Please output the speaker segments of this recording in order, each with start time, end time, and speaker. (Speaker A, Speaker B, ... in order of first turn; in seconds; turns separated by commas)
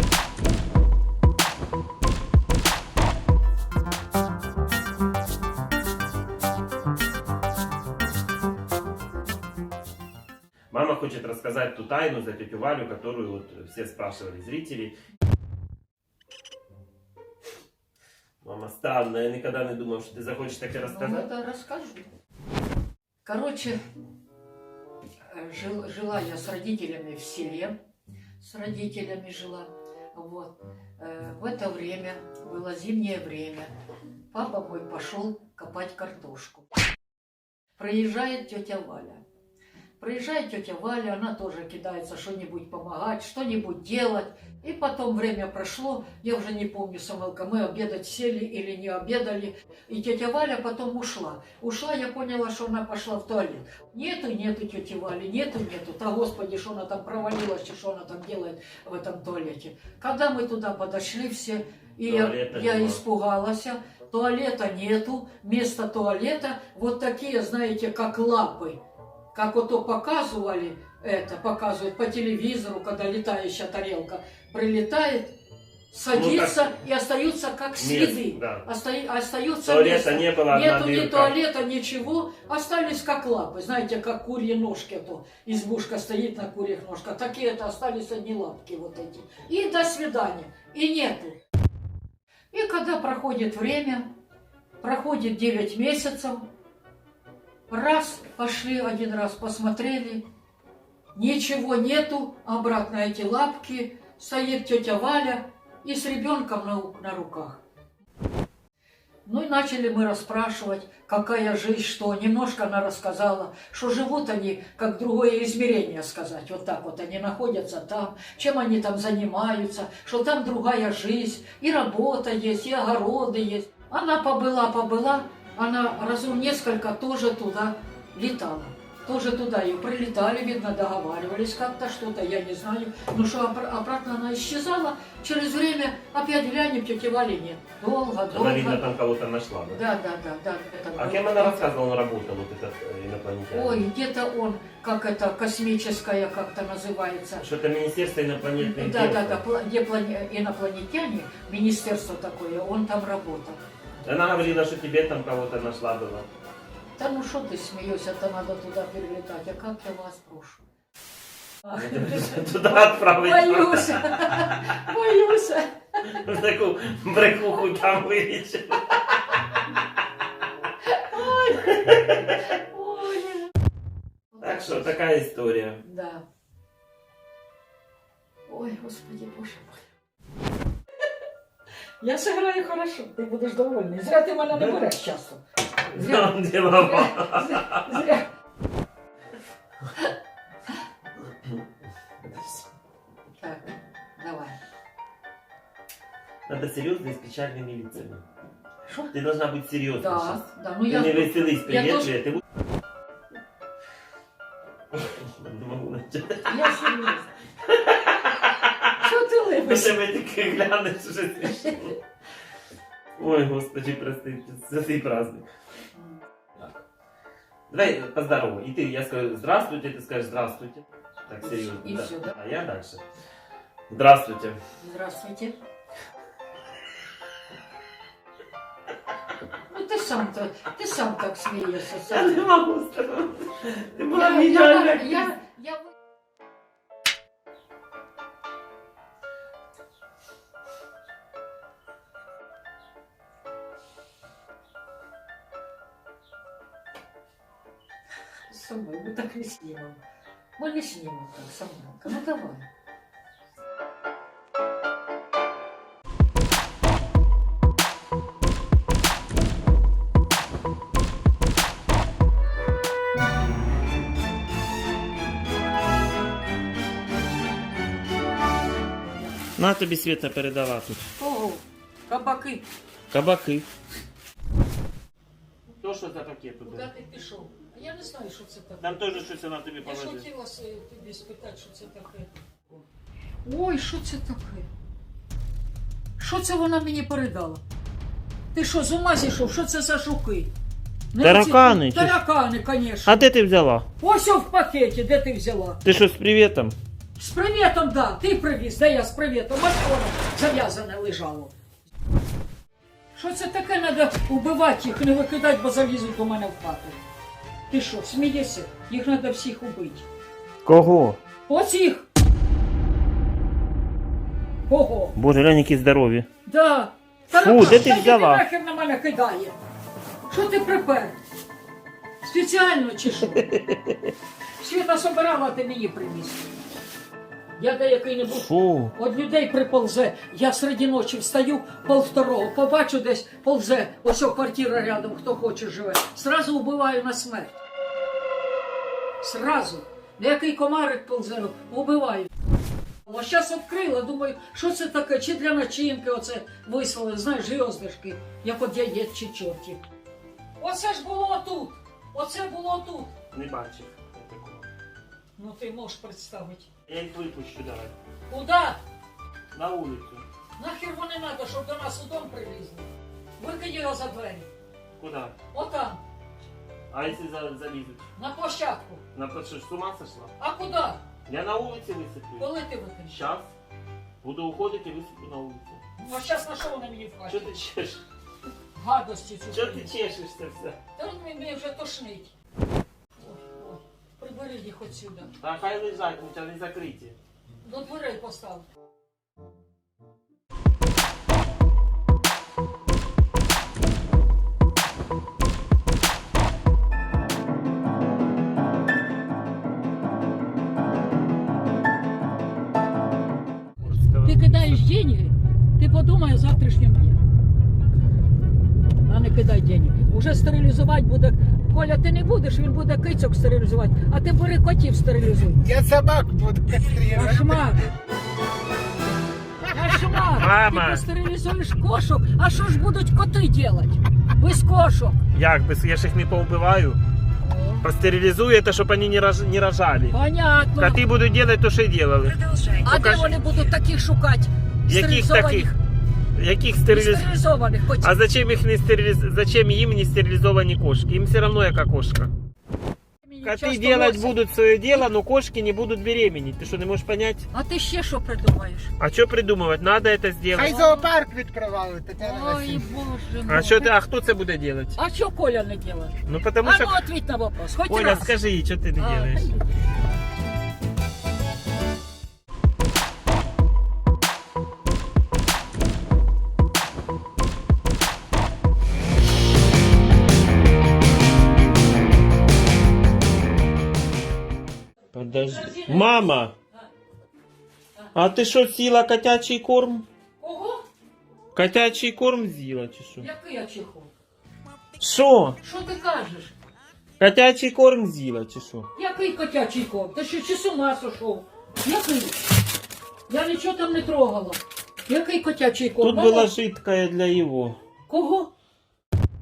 Speaker A: 10.7-14.9, Speaker A: 18.4-21.3, Speaker B: 20.8-22.1, Speaker B: 23.2-23.8, Speaker B: 25.3-27.7, Speaker B: 28.4-33.7, Speaker B: 34.3-36.6, Speaker B: 37.8-39.2, Speaker B: 40.0-68.8, Speaker A: 62.0-63.0, Speaker B: 69.3-75.3, Speaker B: 75.9-91.4, Speaker A: 76.1-76.8, Speaker A: 77.8-78.6, Speaker A: 79.6-81.4, Speaker B: 92.5-94.0, Speaker B: 94.8-96.5, Speaker B: 97.7-100.2, Speaker B: 101.1-107.6, Speaker B: 109.2-138.8, Speaker A: 138.3-139.8, Speaker B: 139.7-141.6, Speaker A: 140.9-143.8, Speaker B: 143.5-147.4, Speaker A: 147.4-149.4, Speaker B: 148.6-153.6, Speaker A: 154.0-156.3, Speaker B: 157.0-160.6, Speaker B: 161.6-166.2, Speaker A: 161.7-164.6, Speaker A: 166.1-169.3, Speaker B: 171.0-173.5, Speaker A: 171.8-172.1, Speaker B: 174.3-174.9, Speaker A: 174.4-175.8, Speaker B: 175.8-176.2, Speaker B: 178.5-179.8, Speaker B: 182.0-188.3, Speaker A: 185.9-188.0, Speaker A: 192.2-192.7, Speaker B: 193.4-194.6, Speaker A: 196.5-198.2, Speaker B: 198.8-199.1, Speaker A: 199.1-202.4, Speaker B: 200.0-202.2, Speaker A: 204.9-206.9, Speaker B: 206.4-207.3, Speaker A: 207.7-209.0, Speaker B: 208.9-210.0, Speaker A: 209.6-211.9, Speaker A: 213.2-215.5, Speaker A: 217.7-223.0, Speaker B: 221.4-222.3, Speaker A: 223.9-224.6, Speaker B: 224.8-225.5, Speaker B: 229.7-232.4, Speaker A: 232.1-235.3, Speaker B: 234.1-235.9, Speaker B: 248.5-250.0, Speaker B: 250.6-252.7, Speaker A: 269.6-271.1, Speaker B: 271.2-272.6, Speaker A: 273.1-273.7, Speaker A: 275.8-276.9, Speaker B: 276.6-279.3, Speaker A: 278.8-280.2, Speaker B: 279.8-282.3, Speaker B: 283.4-284.7, Speaker B: 286.2-287.6, Speaker B: 288.5-290.5, Speaker B: 291.1-293.3, Speaker A: 291.2-292.2, Speaker A: 293.1-293.9, Speaker B: 294.0-295.8, Speaker A: 295.8-296.8, Speaker B: 297.2-301.5, Speaker B: 303.1-307.0, Speaker B: 307.7-310.0, Speaker A: 310.6-311.2, Speaker B: 311.5-312.1, Speaker B: 314.7-315.1, Speaker A: 315.1-316.3, Speaker B: 316.4-319.6, Speaker A: 317.3-318.4, Speaker B: 320.3-321.1, Speaker B: 322.2-323.4, Speaker A: 323.3-324.1, Speaker B: 324.6-326.4, Speaker B: 327.6-337.6, Speaker A: 328.2-328.9, Speaker B: 339.2-342.3, Speaker B: 343.1-349.8, Speaker B: 350.6-353.1, Speaker A: 353.3-354.7, Speaker B: 355.4-356.7, Speaker A: 356.9-357.9, Speaker B: 358.3-358.8, Speaker A: 359.5-360.2, Speaker B: 360.6-364.5, Speaker A: 365.0-365.3, Speaker B: 365.5-366.0, Speaker A: 366.9-368.0, Speaker B: 368.1-369.0, Speaker A: 369.1-370.3, Speaker B: 370.4-371.0, Speaker A: 371.3-372.5, Speaker B: 372.4-373.2, Speaker A: 373.1-373.5, Speaker A: 374.2-375.8, Speaker B: 376.0-377.6, Speaker A: 377.3-378.0, Speaker B: 378.8-379.9, Speaker A: 379.5-380.8, Speaker B: 380.9-382.3, Speaker B: 383.2-385.3, Speaker A: 385.4-387.1, Speaker B: 387.6-388.6, Speaker A: 403.8-404.8, Speaker B: 404.2-407.2, Speaker B: 409.0-415.8, Speaker C: 415.7-417.5, Speaker B: 416.7-417.9, Speaker B: 419.7-425.2, Speaker A: 420.3-421.0, Speaker A: 425.3-427.0, Speaker B: 427.4-427.9, Speaker A: 427.8-430.2, Speaker B: 430.1-431.0, Speaker A: 430.8-433.7, Speaker B: 432.8-435.8, Speaker A: 434.9-435.7, Speaker A: 436.4-437.4, Speaker B: 436.9-438.2, Speaker A: 438.0-442.3, Speaker B: 443.2-444.3, Speaker A: 443.4-447.5, Speaker B: 447.5-448.9, Speaker A: 449.0-450.7, Speaker B: 450.5-451.1, Speaker C: 450.7-452.8, Speaker B: 452.2-453.9, Speaker A: 453.4-454.9, Speaker B: 454.9-458.3, Speaker A: 456.2-457.0, Speaker A: 457.9-459.5, Speaker B: 459.0-459.6, Speaker A: 475.1-476.5, Speaker B: 475.4-476.8, Speaker A: 478.1-480.1, Speaker B: 480.4-480.8, Speaker A: 481.5-483.3, Speaker B: 483.2-484.1, Speaker A: 485.0-485.6, Speaker B: 485.6-486.5, Speaker A: 487.2-488.9, Speaker B: 488.9-492.4, Speaker B: 493.3-496.5, Speaker A: 496.0-497.8, Speaker B: 498.1-498.5